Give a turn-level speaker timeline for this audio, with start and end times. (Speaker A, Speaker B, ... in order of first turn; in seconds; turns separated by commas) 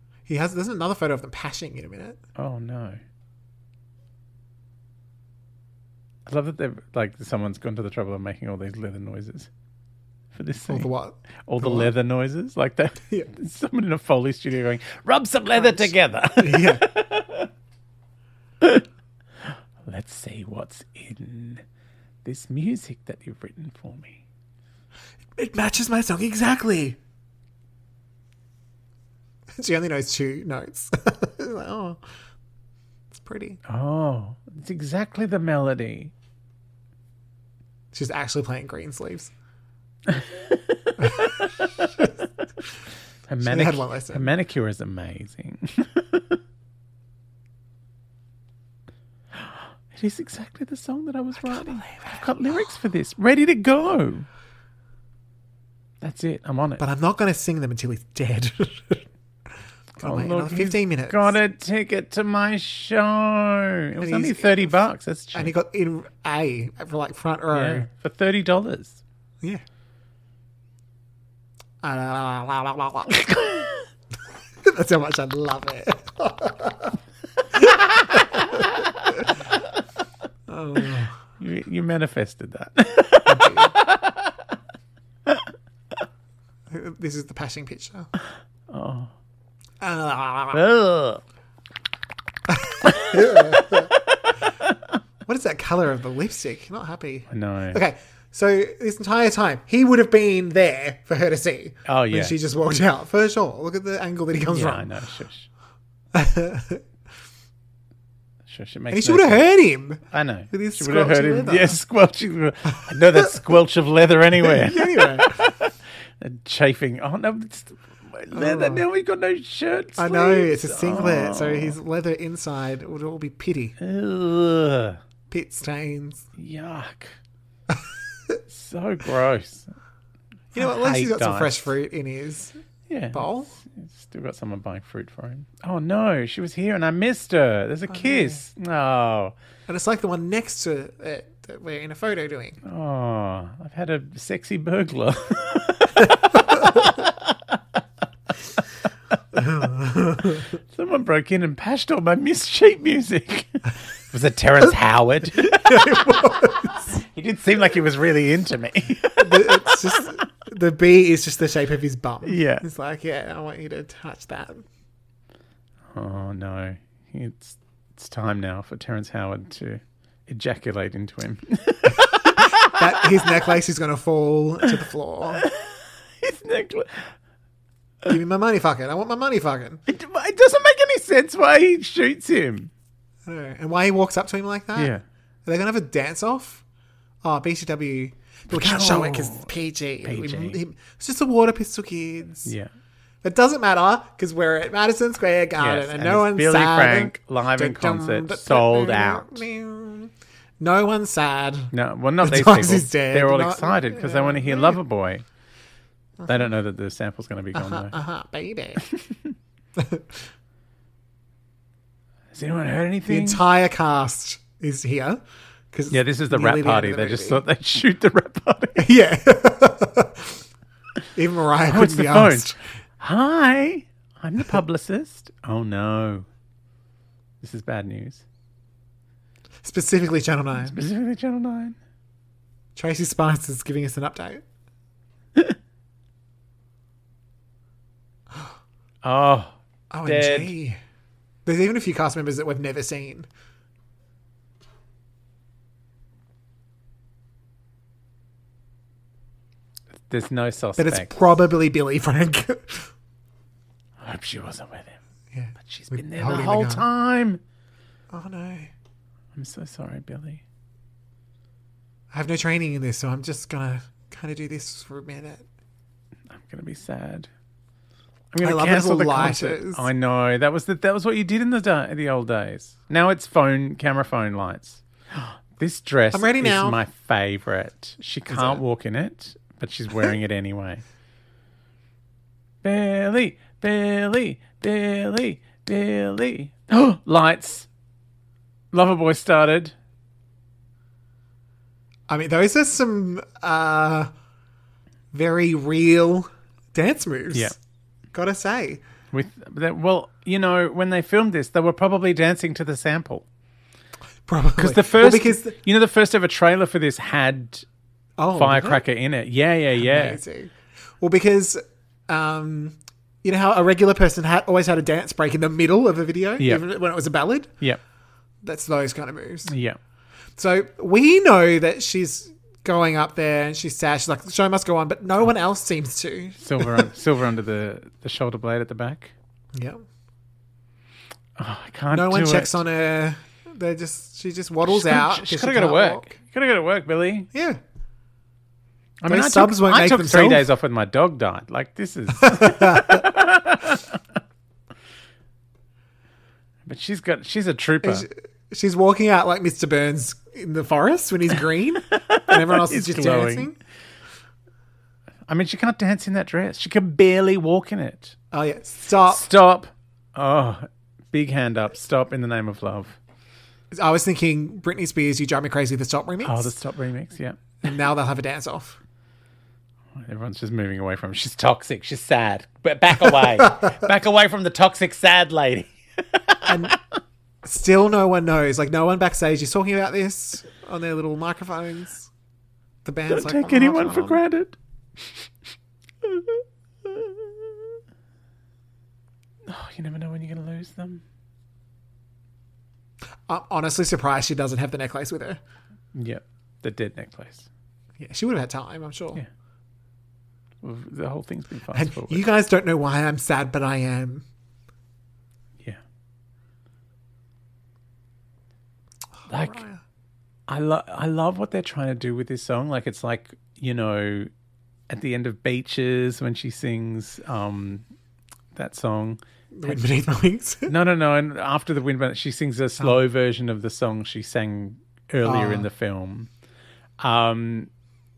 Speaker A: 0.3-2.2, Speaker B: 2.4-3.0, Speaker B: 6.3-9.5, Speaker B: 10.3-10.9, Speaker A: 10.7-11.9, Speaker B: 11.5-17.5, Speaker A: 15.6-16.9, Speaker B: 18.6-18.9, Speaker B: 19.4-21.6, Speaker B: 22.2-24.2, Speaker A: 25.4-27.0, Speaker A: 29.6-32.0, Speaker A: 33.1-33.6, Speaker B: 33.7-36.1, Speaker A: 37.9-39.3, Speaker B: 40.1-41.9, Speaker A: 41.0-42.1, Speaker B: 43.3-46.4, Speaker A: 43.4-44.3, Speaker B: 49.3-54.3, Speaker A: 51.4-52.6, Speaker B: 56.0-56.8, Speaker A: 56.8-59.0, Speaker A: 60.0-61.3, Speaker B: 60.0-65.5, Speaker A: 64.0-64.8, Speaker A: 65.3-67.9, Speaker B: 67.5-69.0, Speaker A: 71.8-73.2, Speaker B: 73.1-73.8, Speaker A: 74.6-77.0, Speaker A: 77.5-79.4, Speaker A: 80.5-81.2, Speaker B: 81.4-84.4, Speaker A: 83.2-83.8, Speaker A: 86.7-88.1, Speaker B: 88.7-89.1, Speaker A: 89.8-90.6, Speaker B: 90.5-91.2, Speaker A: 92.5-94.0, Speaker B: 92.8-93.9, Speaker A: 95.3-104.9, Speaker B: 97.3-97.8, Speaker B: 101.9-102.3, Speaker B: 104.5-105.5, Speaker A: 106.1-106.8, Speaker B: 108.5-109.5, Speaker A: 108.9-111.8, Speaker B: 110.1-121.8, Speaker A: 112.8-113.3, Speaker A: 114.4-115.6, Speaker A: 118.3-118.8, Speaker A: 120.0-123.8, Speaker B: 123.8-125.0, Speaker A: 125.3-126.3, Speaker B: 126.4-127.2, Speaker B: 128.5-129.7, Speaker B: 130.5-131.7, Speaker A: 130.5-132.6, Speaker B: 132.9-139.3, Speaker A: 133.1-133.6, Speaker A: 137.9-138.4, Speaker A: 139.7-142.6, Speaker B: 142.6-147.6, Speaker A: 146.3-146.9, Speaker A: 149.3-150.6, Speaker B: 150.6-160.0, Speaker A: 155.3-156.9, Speaker A: 159.2-164.7, Speaker B: 162.2-162.6, Speaker B: 165.9-173.4, Speaker A: 171.9-175.4, Speaker B: 175.3-177.1, Speaker A: 178.1-179.8, Speaker B: 179.9-182.7, Speaker A: 183.3-184.9, Speaker B: 184.8-185.0, Speaker A: 185.5-186.6, Speaker A: 187.2-192.5, Speaker B: 188.5-189.5, Speaker B: 190.0-190.6, Speaker B: 192.4-192.7, Speaker A: 193.2-204.8, Speaker B: 195.6-199.4, Speaker B: 201.7-205.2, Speaker A: 206.2-206.5, Speaker B: 206.3-207.9, Speaker A: 207.5-208.8, Speaker B: 208.8-209.3, Speaker A: 209.8-210.2, Speaker B: 212.3-213.4, Speaker A: 213.1-215.2, Speaker A: 215.7-217.4, Speaker B: 215.9-218.9, Speaker A: 218.8-220.4, Speaker A: 221.2-222.6, Speaker B: 221.7-226.3, Speaker B: 227.4-228.2, Speaker A: 229.6-230.8, Speaker B: 230.6-231.8, Speaker A: 232.8-234.4, Speaker B: 239.0-240.5, Speaker A: 239.9-240.8, Speaker A: 241.5-243.3, Speaker B: 250.1-251.1, Speaker A: 250.8-252.9, Speaker B: 254.0-255.0, Speaker A: 255.3-256.9, Speaker B: 255.6-257.4, Speaker A: 258.1-258.7, Speaker B: 259.3-260.4, Speaker A: 262.1-265.4, Speaker B: 266.3-267.3, Speaker B: 268.3-280.8, Speaker A: 268.4-269.9, Speaker A: 276.1-276.8, Speaker A: 278.3-278.6, Speaker B: 282.6-287.7, Speaker B: 288.7-289.7, Speaker A: 292.1-294.1, Speaker A: 295.1-297.6, Speaker A: 298.1-298.8, Speaker B: 299.1-303.2, Speaker A: 304.3-305.6, Speaker B: 304.6-307.6, Speaker A: 308.2-308.8, Speaker B: 308.4-310.2, Speaker A: 309.8-317.5, Speaker B: 316.4-316.6, Speaker A: 318.4-319.5, Speaker B: 319.5-319.8, Speaker A: 320.4-326.9, Speaker B: 326.4-329.1, Speaker A: 329.5-329.8, Speaker B: 331.4-332.6, Speaker A: 331.9-336.2, Speaker B: 334.6-337.3, Speaker A: 337.3-337.6, Speaker B: 339.0-344.0, Speaker A: 339.1-340.5, Speaker A: 342.1-343.1, Speaker B: 346.7-348.1, Speaker A: 347.8-353.6, Speaker B: 351.9-353.5, Speaker B: 355.3-358.1, Speaker A: 358.3-359.3, Speaker B: 359.1-363.0, Speaker A: 363.7-366.5, Speaker B: 366.2-367.6, Speaker A: 367.6-368.8, Speaker B: 369.9-376.8, Speaker A: 373.1-373.8, Speaker A: 376.5-376.8, Speaker A: 377.4-382.1, Speaker A: 382.9-384.2, Speaker B: 383.1-385.3, Speaker B: 386.0-387.8, Speaker B: 389.4-391.0, Speaker A: 393.3-395.4, Speaker B: 395.9-397.5, Speaker A: 398.0-399.2, Speaker B: 400.6-402.2, Speaker A: 401.7-404.2, Speaker A: 409.2-409.8, Speaker B: 409.3-409.6, Speaker B: 410.5-414.3, Speaker B: 414.9-417.8, Speaker B: 418.5-419.8, Speaker A: 419.6-420.7, Speaker B: 420.7-426.3, Speaker A: 425.2-425.7, Speaker B: 427.0-427.7